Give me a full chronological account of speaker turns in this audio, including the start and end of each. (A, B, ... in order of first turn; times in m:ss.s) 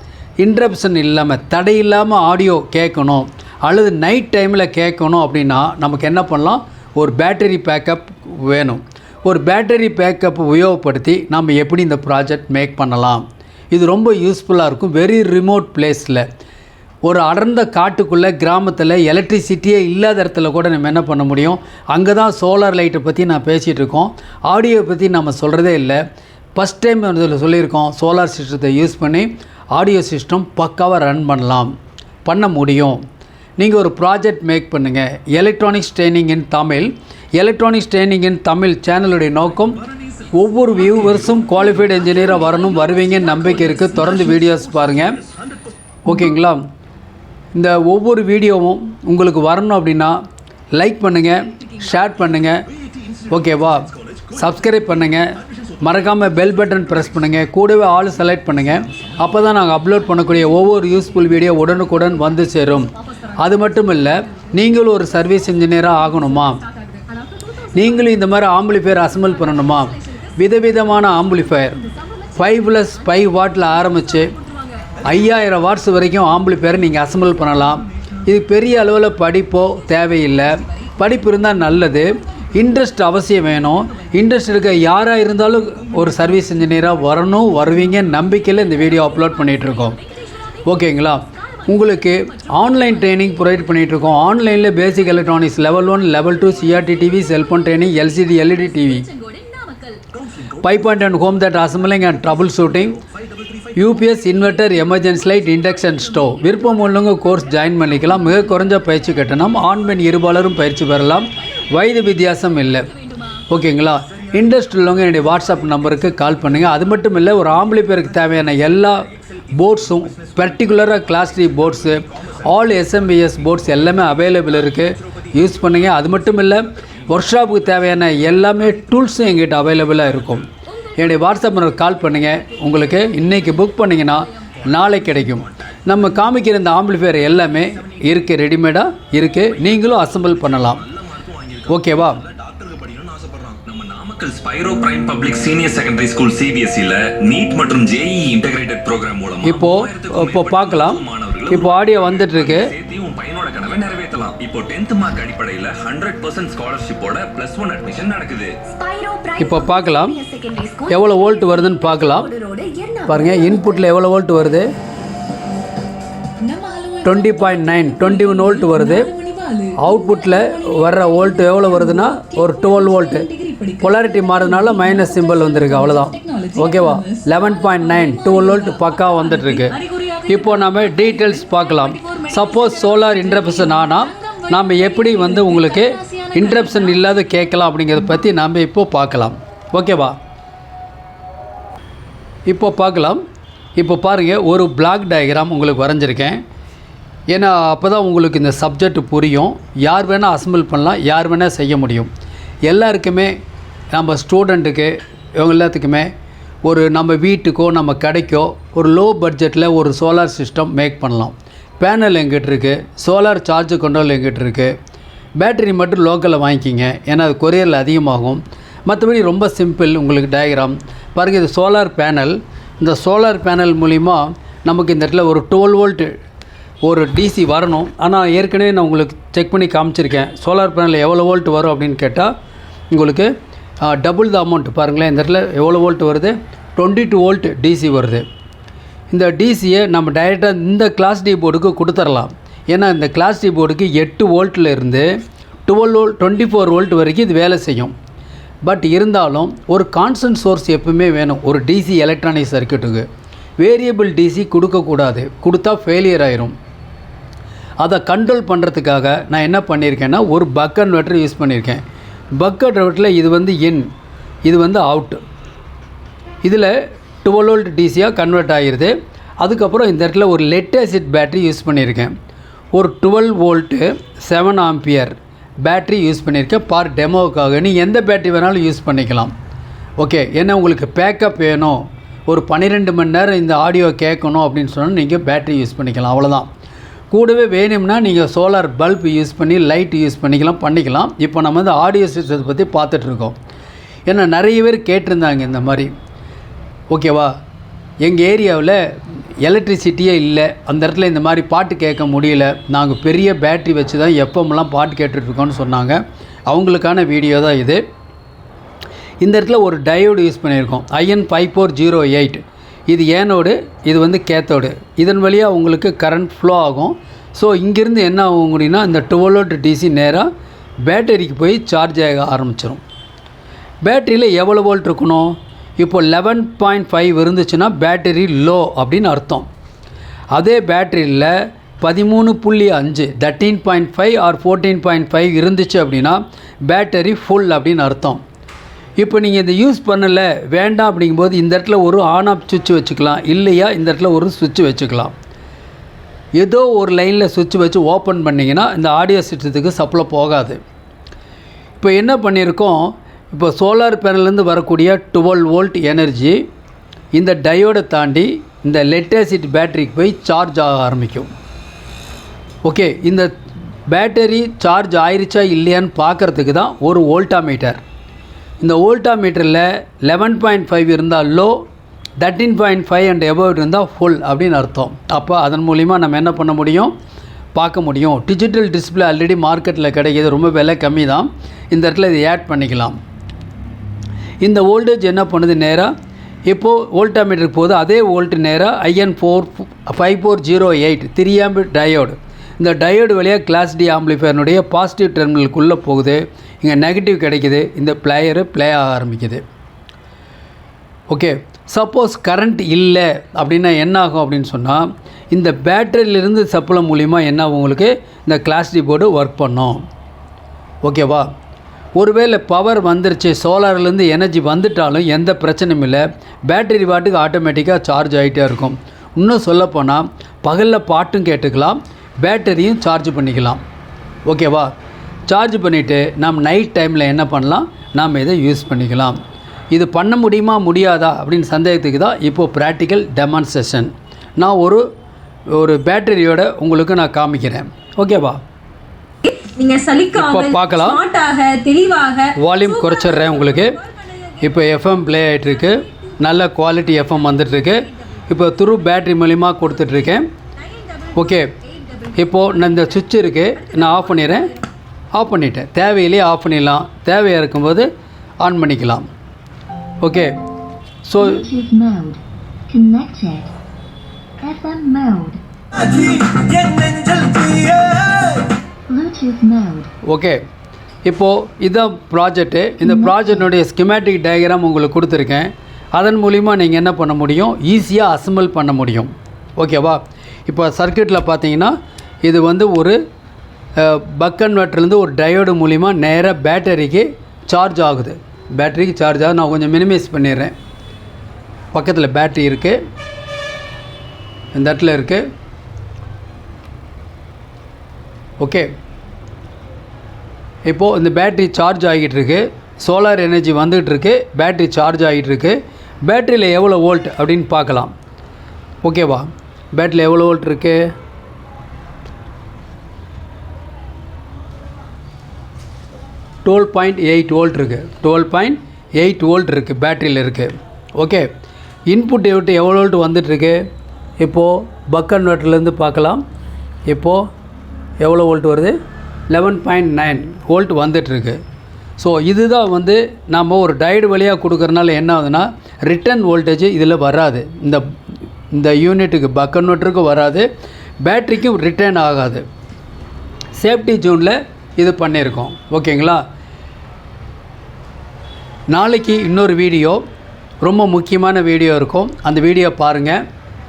0:00.4-0:16.2 A
0:17.0-0:26.0 A
0:26.6-0:31.7 A
0:32.2-0:33.0 A
0:33.6-0:39.8 A
0:39.6-0:42.4 B
0:40.3-0:45.2 A
0:41.6-0:44.4 C
0:43.3-0:45.6 B
0:46.1-0:46.6 A
0:47.5-0:50.2 A
0:50.8-0:52.6 A
0:51.5-0:51.9 C
0:52.3-0:59.3 B
0:53.3-1:06.6 A
0:59.6-1:15.5 C
1:07.8-1:11.8 A
1:12.4-1:14.3 A
1:15.0-1:30.0 A
1:16.4-1:18.2 C
1:19.8-1:40.0 C
1:30.7-1:39.1 A
1:40.2-1:43.8 B
1:40.6-1:43.0 A
1:43.8-1:52.9 A
1:44.0-1:50.0 C
1:51.3-1:53.4 C
1:53.5-2:10.5 A
1:54.3-2:06.6 B
2:07.1-2:10.5 B
2:10.7-2:14.3 C
2:11.0-2:20.8 A
2:14.8-2:15.7 B
2:17.5-2:18.2 B
2:19.3-2:38.6 B
2:21.7-2:22.2 A
2:29.4-2:32.7 A
2:38.7-2:43.9 C
2:39.4-2:40.2 A
2:40.9-2:42.3 A
2:43.1-2:44.7 A
2:46.4-3:07.6 C
2:47.0-2:49.1 A
2:49.8-2:53.3 A
2:53.8-2:59.8 A
3:00.3-3:10.2 A
3:12.5-3:13.2 A
3:13.8-3:16.4 A
3:17.3-3:22.1 A
3:22.7-3:23.3 A
3:23.9-3:26.1 A
3:26.6-3:34.7 A
3:35.4-3:46.1 A
3:46.8-3:52.3 A
3:52.9-3:53.3 A
3:53.8-3:58.2 A
3:59.1-4:05.1 A
4:05.7-4:07.9 A
4:08.6-4:13.1 A
4:13.6-4:16.5 A
4:17.8-4:21.8 A
4:22.4-4:23.9 A
4:24.5-4:25.2 A
4:26.4-4:26.7 A
4:27.2-4:32.1 A
4:32.7-4:39.3 A
4:40.0-4:46.5 A
4:47.1-4:53.4 A
4:54.1-4:55.9 A
4:56.9-4:57.3 A
4:58.0-4:58.8 A
4:59.4-5:07.8 A
5:09.2-5:20.3 A
5:20.9-5:22.8 A
5:23.8-5:29.5 A
5:30.3-5:38.2 A
5:39.0-5:45.1 A
5:46.4-5:50.6 A
5:51.8-5:56.4 A
5:57.1-6:01.3 A
6:02.6-6:03.3 A
6:03.9-6:07.8 A
6:08.6-6:11.6 A
6:12.2-6:16.9 A
6:17.6-6:23.0 A
6:24.4-6:25.9 A
6:26.5-6:39.4 A
6:41.1-6:49.8 A
6:50.8-6:51.3 A
6:52.0-7:03.6 A
7:04.3-7:04.7 A
7:05.3-7:09.2 A
7:09.7-7:14.8 A
7:15.5-7:18.4 A
7:19.2-7:26.2 C
7:20.1-7:21.0 A
7:22.4-7:23.8 A
7:24.4-7:30.3 A
7:26.9-7:28.7 C
7:29.6-7:34.7 C
7:31.2-7:31.5 A
7:32.2-7:34.5 A
7:35.1-7:37.9 A
7:38.4-7:39.1 A
7:40.0-7:40.3 A
7:41.0-7:41.5 A
7:41.2-7:43.5 D
7:44.4-7:45.4 D
7:48.9-7:49.9 D
7:50.1-7:50.4 A
7:51.1-8:01.7 A
7:52.8-7:53.3 D
8:02.2-8:03.0 A
8:03.8-8:10.5 A
8:11.7-8:12.8 A
8:14.5-8:15.2 A
8:18.4-8:18.7 A
8:20.7-8:27.9 A
8:28.8-8:30.8 A
8:36.4-8:41.3 A
8:41.9-8:43.6 A
8:44.2-8:46.2 A
8:46.9-8:47.2 A
8:48.0-8:48.8 A
8:49.3-8:51.4 A
8:52.0-8:57.8 A
8:58.5-9:00.5 A
9:01.0-9:02.4 A
9:03.6-9:06.2 A
9:08.7-9:10.0 A
9:10.6-9:13.2 A